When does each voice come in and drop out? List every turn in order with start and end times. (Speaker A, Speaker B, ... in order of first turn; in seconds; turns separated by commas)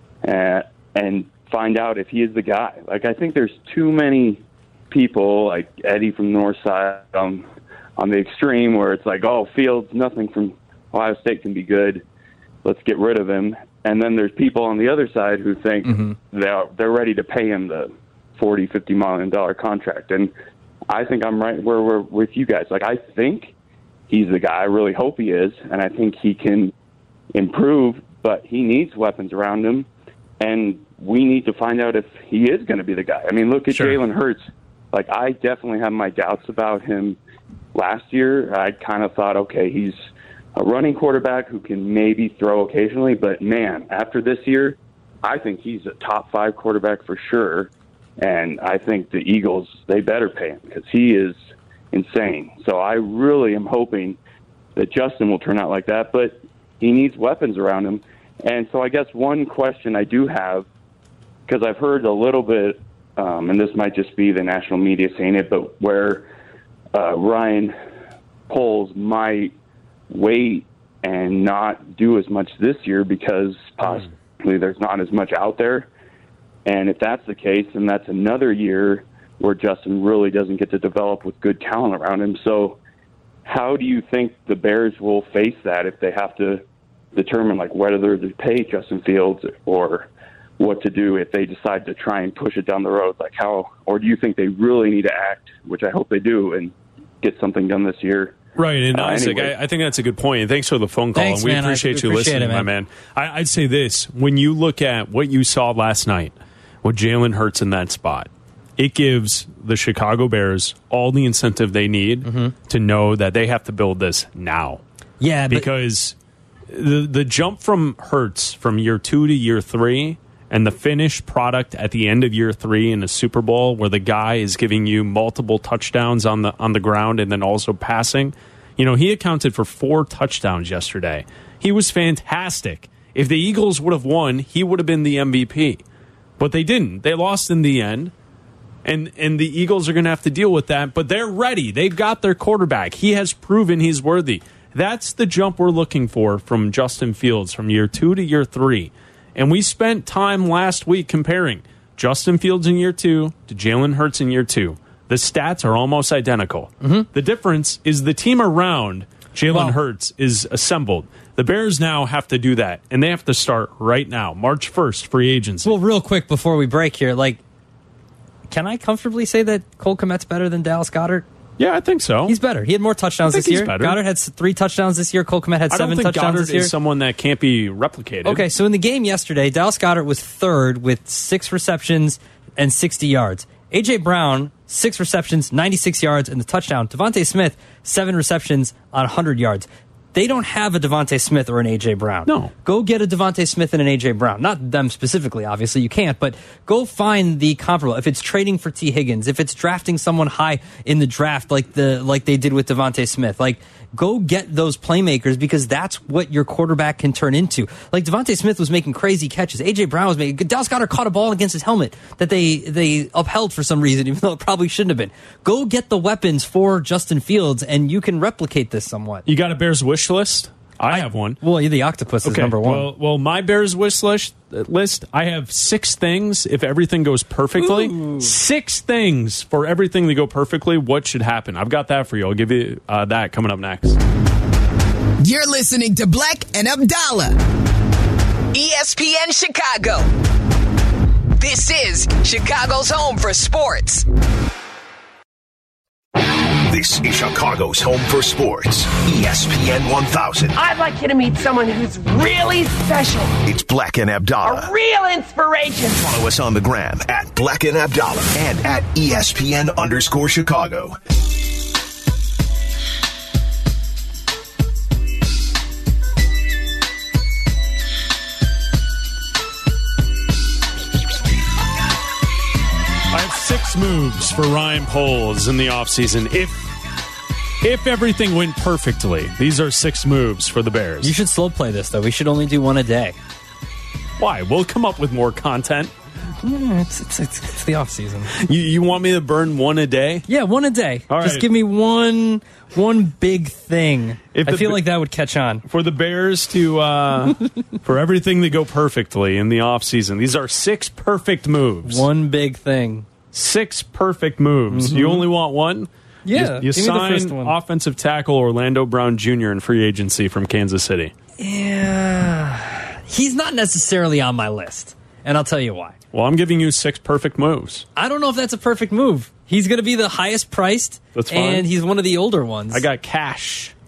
Speaker A: 0.2-12.0, Speaker A: 12.6-20.3, Speaker B: 15.9-16.1, Speaker A: 20.9-23.5, Speaker A: 24.1-26.7, Speaker A: 27.3-29.9, Speaker A: 30.4-37.2, Speaker C: 33.7-34.0, Speaker A: 37.7-40.0, Speaker A: 40.5-51.4, Speaker A: 51.9-54.2, Speaker A: 54.8-60.7, Speaker A: 61.5-66.3, Speaker A: 66.9-67.7, Speaker A: 68.5-69.5, Speaker A: 70.1-75.9, Speaker A: 76.7-82.8, Speaker A: 83.4-86.6, Speaker A: 87.1-98.4, Speaker C: 98.5-114.8, Speaker A: 98.9-99.5, Speaker B: 101.2-102.7, Speaker B: 112.2-112.5, Speaker B: 115.2-115.7, Speaker C: 115.5-116.1, Speaker C: 116.7-135.8, Speaker C: 136.4-138.1, Speaker C: 138.8-165.8, Speaker B: 156.8-157.1, Speaker B: 159.5-159.8, Speaker B: 165.6-167.4, Speaker B: 168.5-171.2, Speaker C: 171.6-172.3, Speaker B: 172.2-176.7, Speaker C: 173.3-174.0, Speaker C: 175.7-178.4, Speaker B: 178.2-219.2, Speaker C: 192.3-192.5, Speaker C: 219.2-221.4, Speaker B: 220.9-222.9, Speaker C: 222.2-234.0, Speaker B: 227.6-228.3, Speaker D: 235.2-237.4, Speaker D: 238.5-240.1, Speaker D: 241.4-244.1, Speaker E: 246.7-250.6, Speaker F: 250.6-253.3, Speaker E: 253.4-254.7, Speaker F: 254.4-255.9, Speaker E: 256.0-261.0, Speaker C: 273.1-276.8, Speaker C: 277.6-281.1, Speaker B: 281.0-283.1, Speaker C: 284.2-285.9, Speaker B: 286.4-288.3, Speaker C: 288.4-290.3, Speaker B: 290.3-295.6, Speaker C: 291.1-291.4, Speaker C: 294.3-294.8, Speaker C: 295.6-302.0, Speaker B: 301.9-303.1, Speaker C: 303.3-311.1, Speaker B: 304.7-305.2, Speaker B: 306.2-307.5, Speaker B: 311.4-315.9, Speaker C: 316.1-317.8, Speaker B: 317.9-322.8, Speaker C: 321.1-321.7, Speaker C: 322.7-323.7